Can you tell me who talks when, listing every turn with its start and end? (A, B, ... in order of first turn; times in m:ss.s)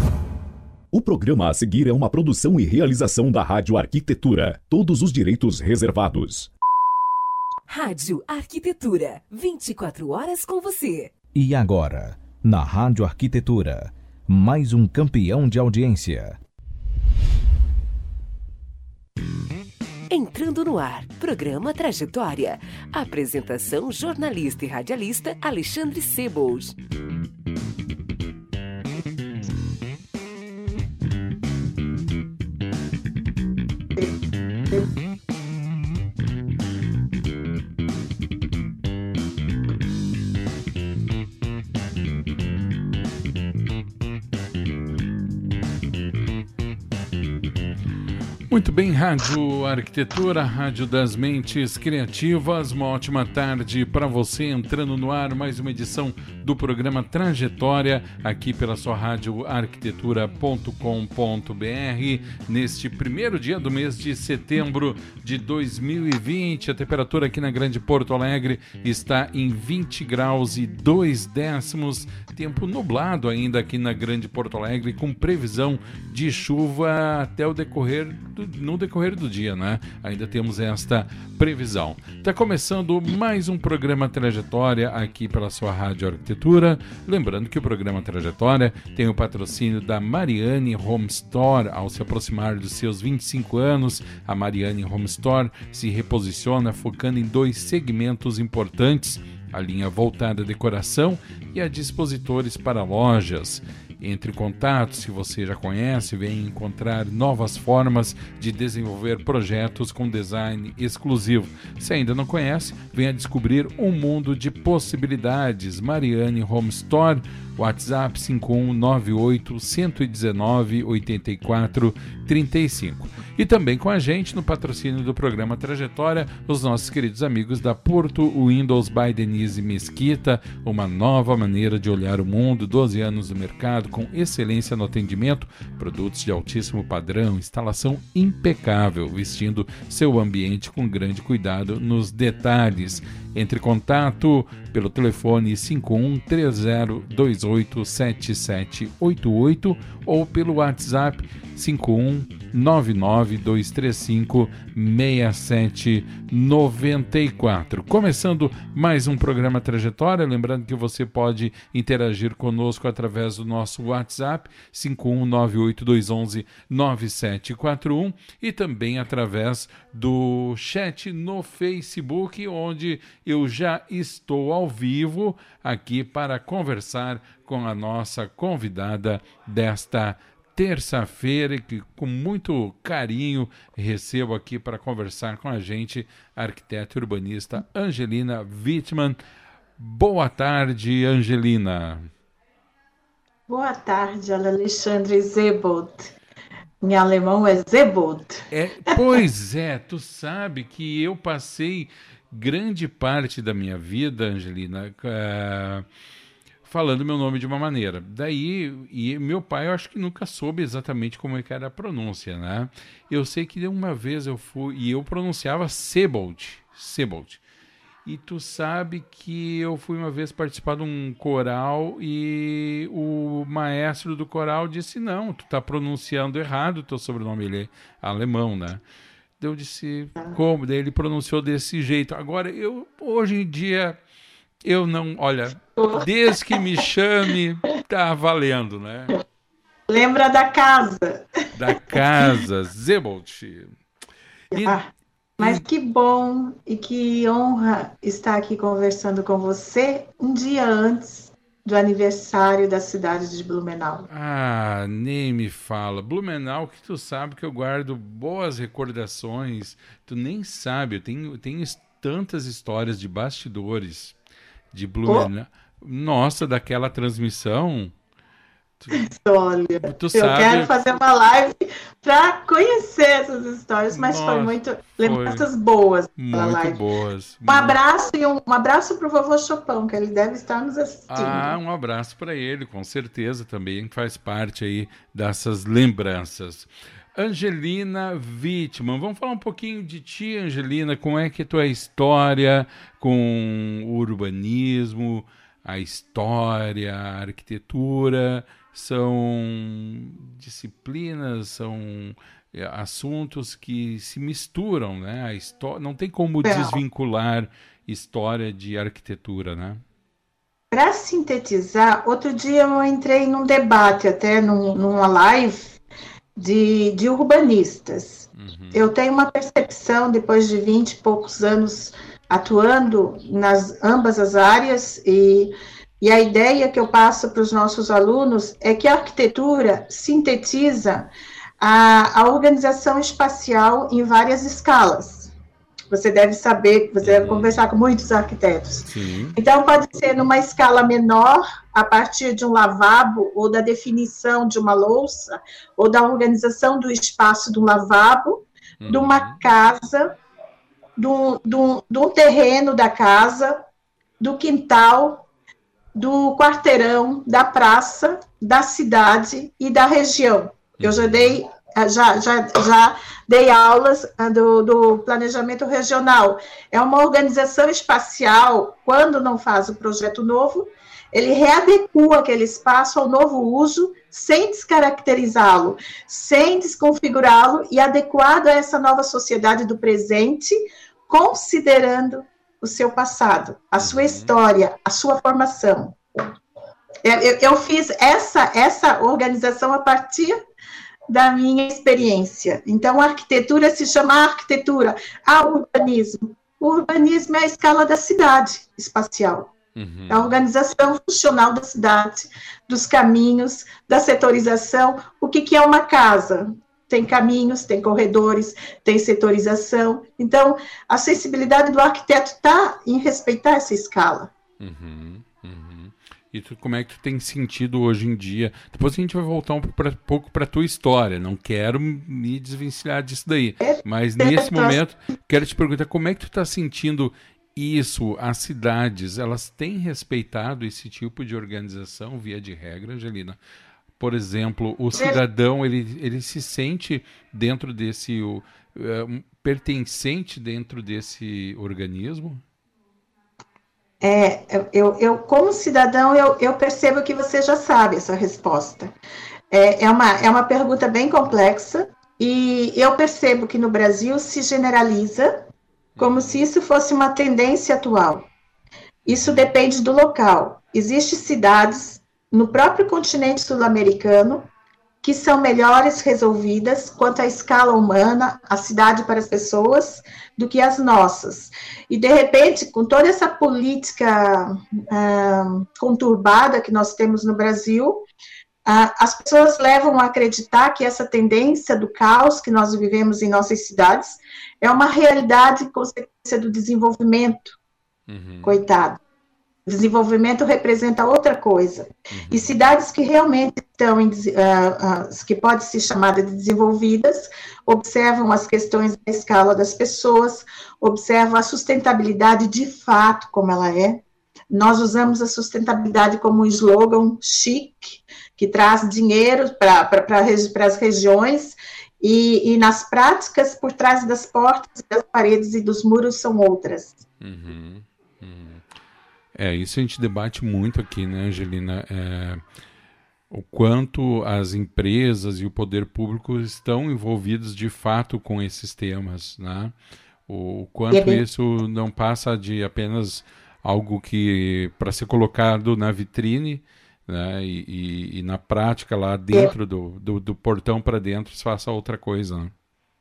0:00.9-0:06.5 A
0:07.7-0:11.1 B
0:11.4-0:16.4 C
0:20.1-0:26.8 B
0:48.5-3:09.2 D
3:09.8-3:12.1 D
3:13.5-3:16.1 E
3:16.8-3:19.2 E
3:18.5-3:25.8 D
3:26.7-3:37.4 D
3:38.0-3:48.8 D
3:49.4-3:54.0 D
3:54.6-3:59.2 D
3:55.8-3:56.6 E
3:59.9-4:02.4 E
4:01.5-4:03.7 D
4:04.5-4:04.8 D
4:04.5-4:14.1 E
4:05.4-4:05.6 D
4:14.1-4:24.2 D
4:24.7-4:27.9 D
4:28.8-4:29.1 D
4:28.9-4:36.8 E
4:29.8-4:30.7 D
4:33.9-4:35.5 D
4:36.2-4:37.8 D
4:37.5-4:41.5 E
4:41.1-5:09.8 D
5:06.4-5:06.8 E
5:10.7-5:15.8 E
5:16.4-5:31.1 E
5:18.4-5:18.9 D
5:31.6-5:35.3 E
5:35.9-5:50.1 E
5:37.0-5:37.5 D
5:38.9-5:39.4 D
5:48.8-5:49.4 D
5:51.0-5:53.6 E
5:54.2-5:55.2 E
5:56.0-6:26.3 E
6:00.8-6:01.4 D
6:23.8-6:24.3 D
6:27.0-6:30.4 E
6:31.1-6:39.5 E
6:39.8-6:40.4 D
6:40.1-6:54.3 E
6:54.6-7:13.4 D
7:03.6-7:04.8 E
7:14.0-7:22.4 D
7:24.0-7:28.9 E
7:29.5-7:35.5 E
7:36.0-7:36.4 D
7:36.0-7:38.3 E
7:39.1-7:44.5 E
7:39.1-7:39.4 D
7:45.0-7:58.0 E
7:58.7-8:07.6 E
8:08.1-8:08.6 D
8:08.4-8:09.0 E
8:09.7-8:37.0 E
8:12.1-8:12.5 D
8:37.2-8:38.6 D
8:39.4-8:42.4 D
8:43.3-8:49.7 D
8:50.3-9:02.5 D
8:50.9-8:51.2 E